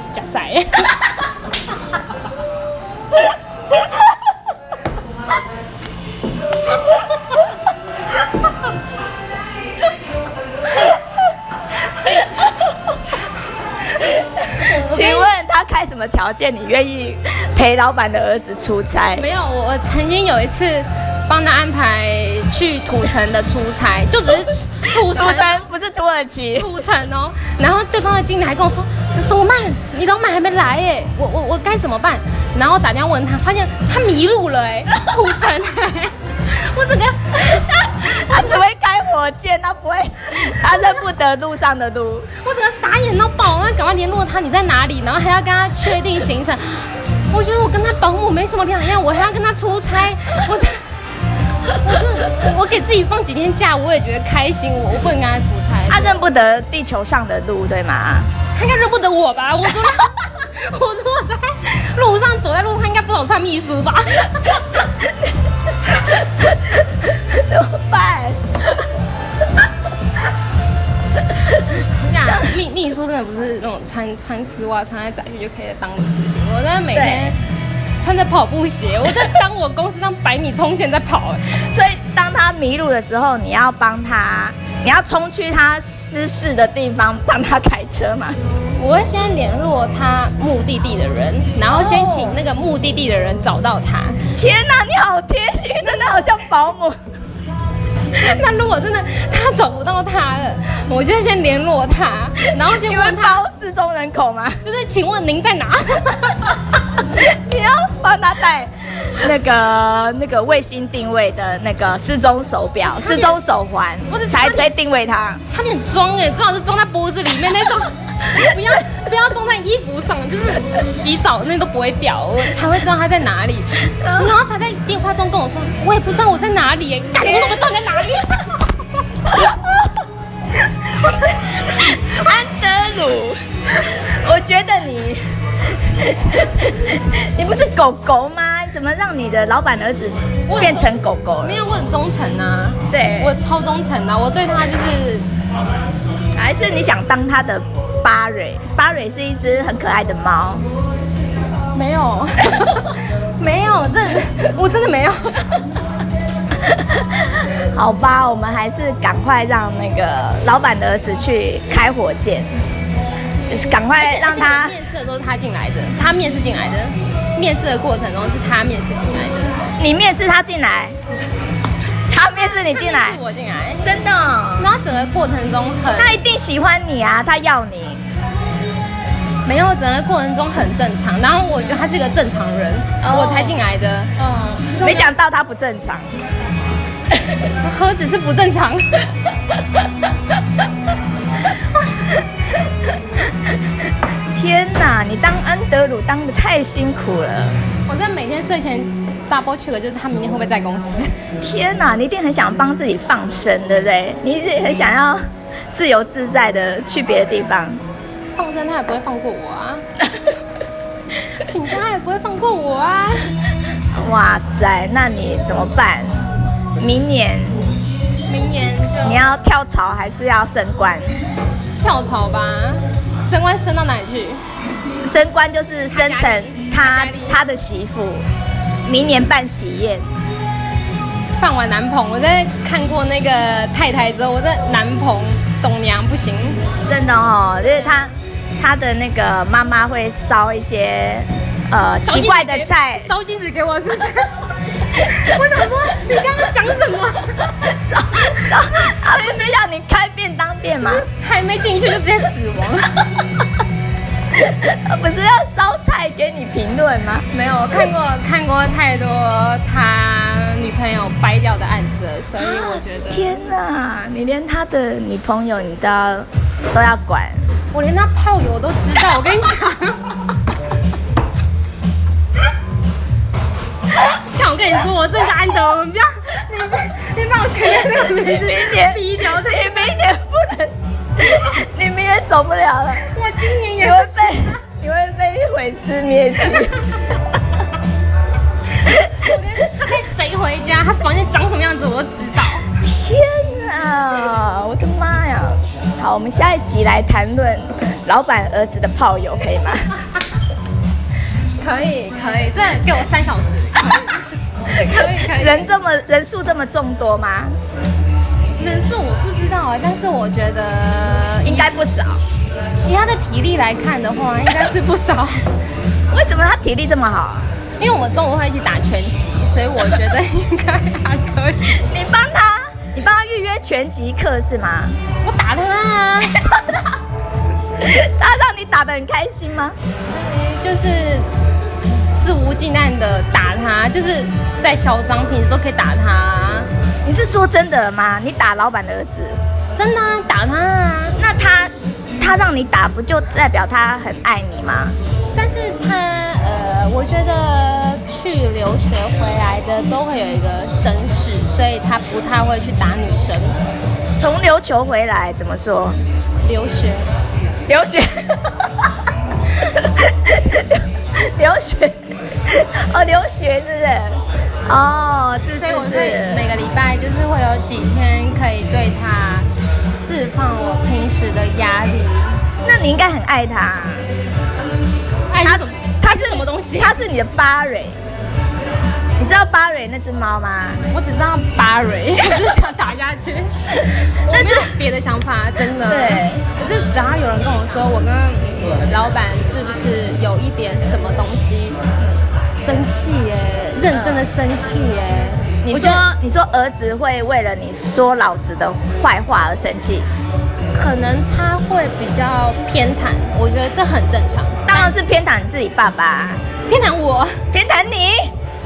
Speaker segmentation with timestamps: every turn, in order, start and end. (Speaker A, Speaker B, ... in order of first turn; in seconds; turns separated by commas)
Speaker A: 0.1-1.3, Speaker B: 14.5-19.2, Speaker A: 14.6-15.3, Speaker A: 19.1-25.6, Speaker B: 25.1-26.7, Speaker A: 26.6-38.6, Speaker B: 37.6-42.3, Speaker A: 42.4-50.9, Speaker A: 51.8-56.2, Speaker B: 55.9-58.3, Speaker A: 58.5-64.6, Speaker B: 67.1-68.4, Speaker A: 71.8-77.4, Speaker B: 76.9-77.3, Speaker A: 78.0-81.7, Speaker B: 81.6-88.4, Speaker A: 88.8-94.2, Speaker B: 91.7-92.4, Speaker B: 94.4-97.0, Speaker A: 98.1-103.4, Speaker B: 102.7-104.6, Speaker A: 104.6-106.6, Speaker B: 107.0-115.4, Speaker A: 112.8-113.4, Speaker A: 114.1-114.7, Speaker A: 115.5-128.7, Speaker B: 124.0-124.3, Speaker B: 127.2-128.3, Speaker B: 129.2-129.9, Speaker B: 130.9-135.2, Speaker B: 135.8-141.6, Speaker A: 140.5-140.9, Speaker A: 141.4-145.3, Speaker B: 142.9-143.3, Speaker B: 146.4-150.7, Speaker A: 151.7-155.8, Speaker B: 157.7-162.5, Speaker B: 163.5-164.8, Speaker A: 164.0-169.6, Speaker B: 169.8-171.0, Speaker B: 172.1-173.2, Speaker A: 172.2-173.8, Speaker B: 173.8-174.7, Speaker A: 174.6-176.2, Speaker B: 176.0-178.0, Speaker A: 179.4-185.1, Speaker B: 183.0-183.6, Speaker B: 184.8-186.1, Speaker A: 187.6-189.0, Speaker B: 194.3-197.6, Speaker A: 197.9-201.2, Speaker B: 201.4-205.2, Speaker B: 205.7-207.8, Speaker A: 208.4-209.8, Speaker A: 211.3-213.3, Speaker B: 213.9-217.7, Speaker A: 218.3-219.3, Speaker B: 219.0-221.2, Speaker A: 221.8-224.4, Speaker B: 225.0-228.2, Speaker A: 225.9-227.4, Speaker B: 228.8-230.1, Speaker A: 231.3-236.6, Speaker B: 236.9-243.1, Speaker A: 242.1-247.6, Speaker B: 247.8-251.1, Speaker A: 248.9-249.5, Speaker A: 250.8-253.2, Speaker B: 254.4-257.3, Speaker A: 257.3-263.3, Speaker B: 262.4-267.5, Speaker A: 267.7-270.1, Speaker A: 274.1-279.9, Speaker B: 277.9-286.8, Speaker A: 283.1-284.5, Speaker B: 288.8-289.2, Speaker A: 289.1-292.7, Speaker B: 292.8-299.9, Speaker A: 301.6-305.7, Speaker B: 305.3-307.6, Speaker A: 308.6-311.7, Speaker B: 311.4-312.2, Speaker A: 312.9-315.4, Speaker B: 316.1-317.5, Speaker A: 317.8-321.7, Speaker B: 321.6-325.0, Speaker A: 325.2-326.4, Speaker B: 327.8-329.8, Speaker A: 330.1-331.3, Speaker A: 332.1-336.7, Speaker B: 337.1-339.4, Speaker A: 339.8-341.2, Speaker B: 341.2-345.0, Speaker A: 345.4-353.6, Speaker B: 354.2-356.0, Speaker A: 356.4-357.1, Speaker B: 357.7-358.6, Speaker B: 359.5-366.5, Speaker A: 365.6-372.4, Speaker B: 372.6-374.1, Speaker A: 375.3-377.0, Speaker B: 375.4-378.0, Speaker B: 379.2-380.8, Speaker A: 380.9-391.8, Speaker B: 384.3-384.7, Speaker B: 385.8-386.5, Speaker A: 392.5-396.0, Speaker B: 393.9-394.2, Speaker B: 395.6-400.1, Speaker A: 400.7-404.9, Speaker B: 404.7-406.4, Speaker A: 406.7-407.4, Speaker B: 407.5-408.3